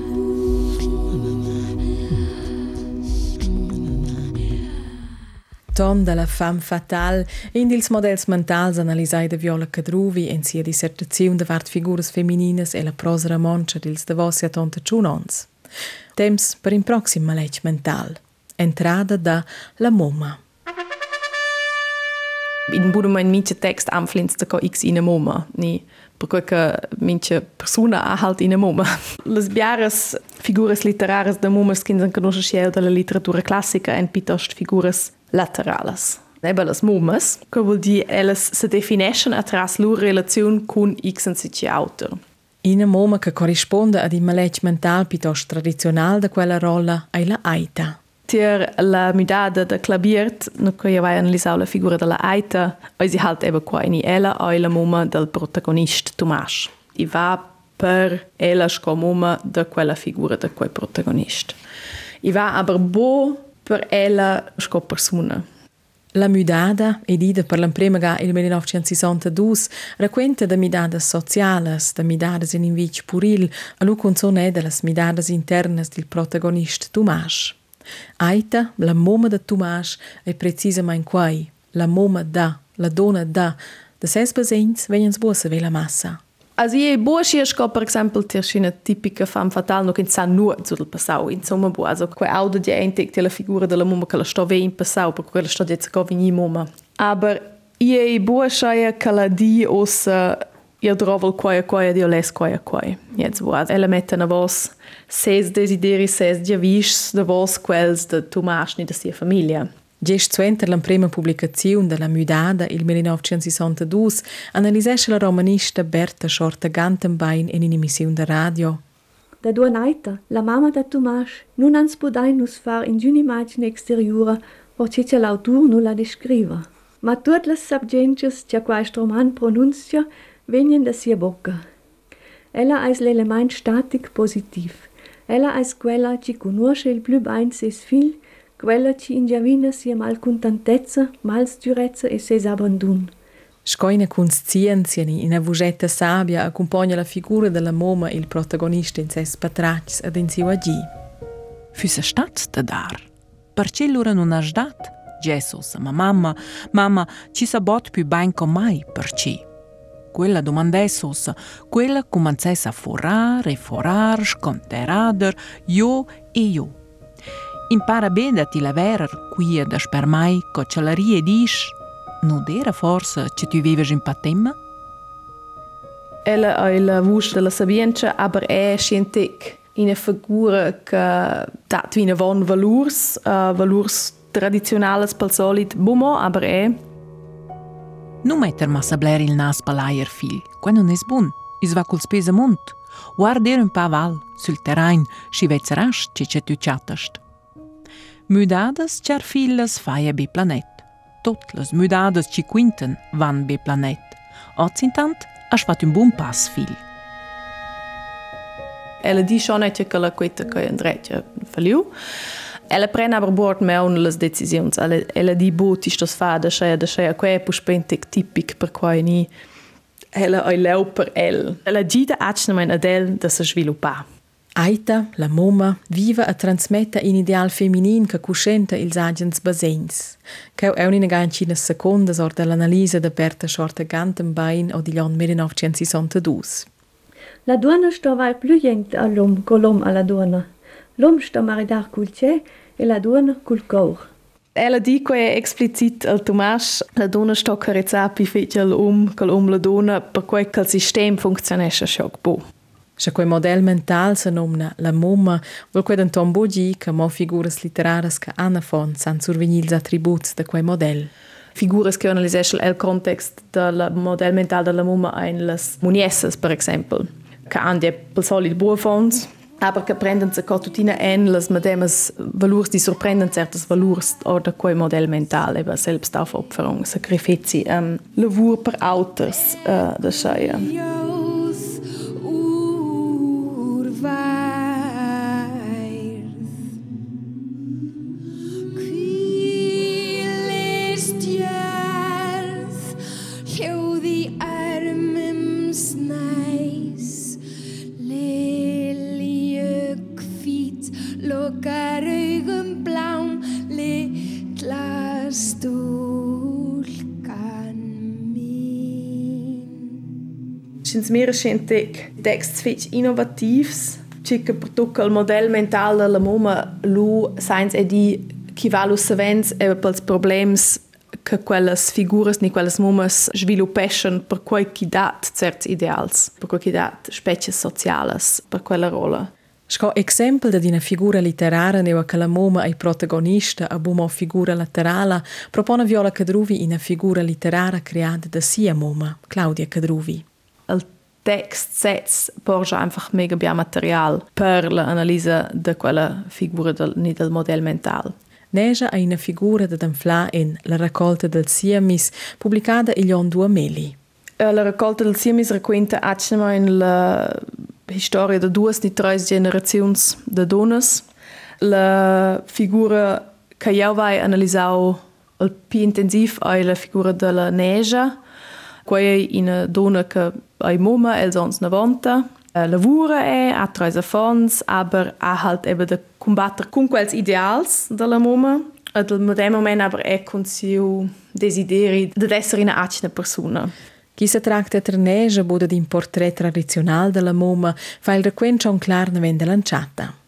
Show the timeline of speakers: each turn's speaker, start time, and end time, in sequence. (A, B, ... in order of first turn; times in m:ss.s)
0:05.7-0:15.5 A
0:16.2-0:20.4 A
0:22.7-0:42.2 B
0:42.6-0:48.0 A
0:48.3-1:01.6 B
1:02.2-1:05.4 B
1:06.2-1:17.6 A
1:18.2-1:26.2 A
1:26.6-1:49.7 B
1:50.0-1:58.8 A
1:59.4-2:11.6 C
2:12.5-2:23.1 C
2:23.7-2:30.9 A
2:31.7-2:39.4 D
2:40.1-2:46.8 D
2:47.7-2:54.6 D
2:56.2-3:06.8 B
3:08.2-3:17.2 D
3:18.3-3:26.8 D
3:29.0-3:31.9 B
3:32.7-3:39.3 B
3:40.1-3:44.0 B
3:44.6-3:56.7 A
3:57.5-4:04.1 C
4:04.6-4:12.4 B
4:13.0-4:21.1 A
4:21.6-4:40.7 B
4:40.2-4:46.4 E
4:48.7-4:52.9 E
4:53.4-4:57.4 E
4:58.0-5:09.9 E
5:10.8-5:29.3 B
5:29.7-5:40.2 A
5:40.7-5:48.1 B
5:48.5-5:54.0 A
5:54.4-6:01.0 B
6:01.6-6:08.2 B
6:08.9-6:23.7 B
6:24.2-6:30.1 A